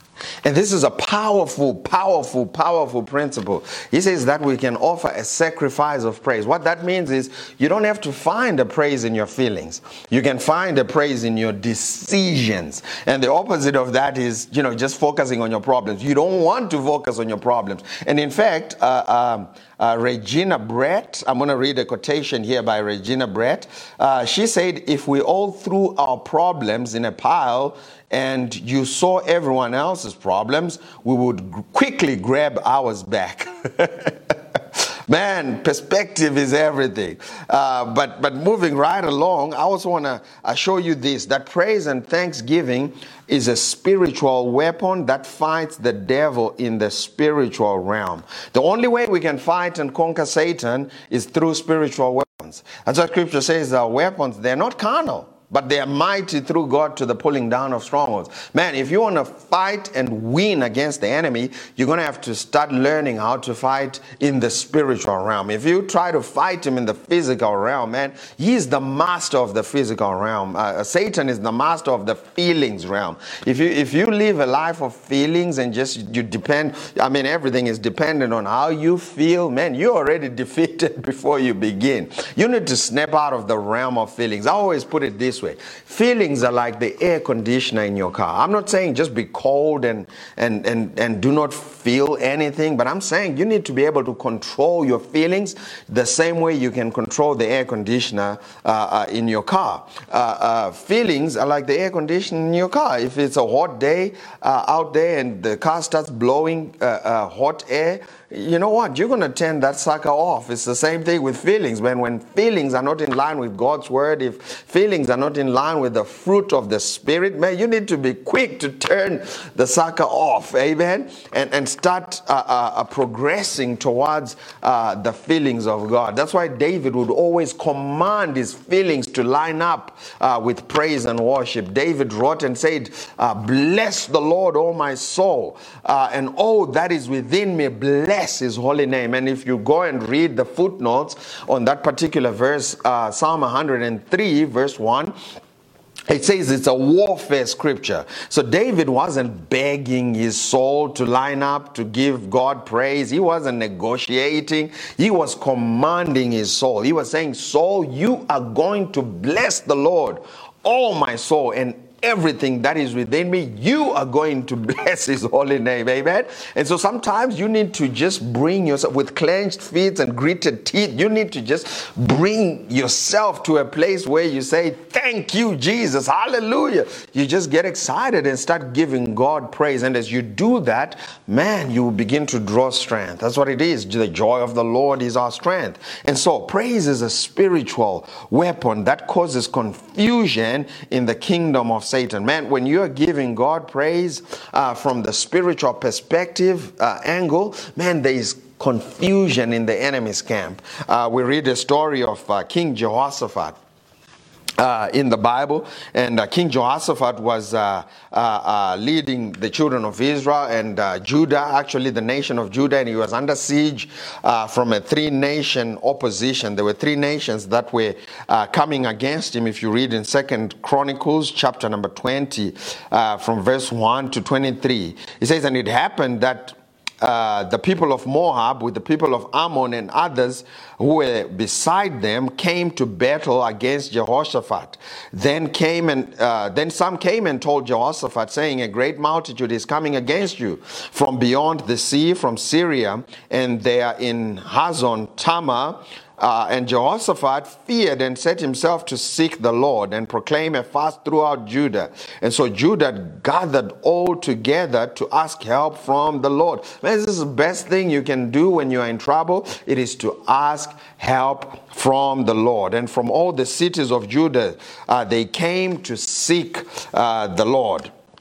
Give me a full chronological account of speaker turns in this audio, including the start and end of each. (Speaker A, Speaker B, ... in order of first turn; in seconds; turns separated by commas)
Speaker A: 0.4-145.1, Speaker A: 146.1-203.6, Speaker A: 204.6-267.9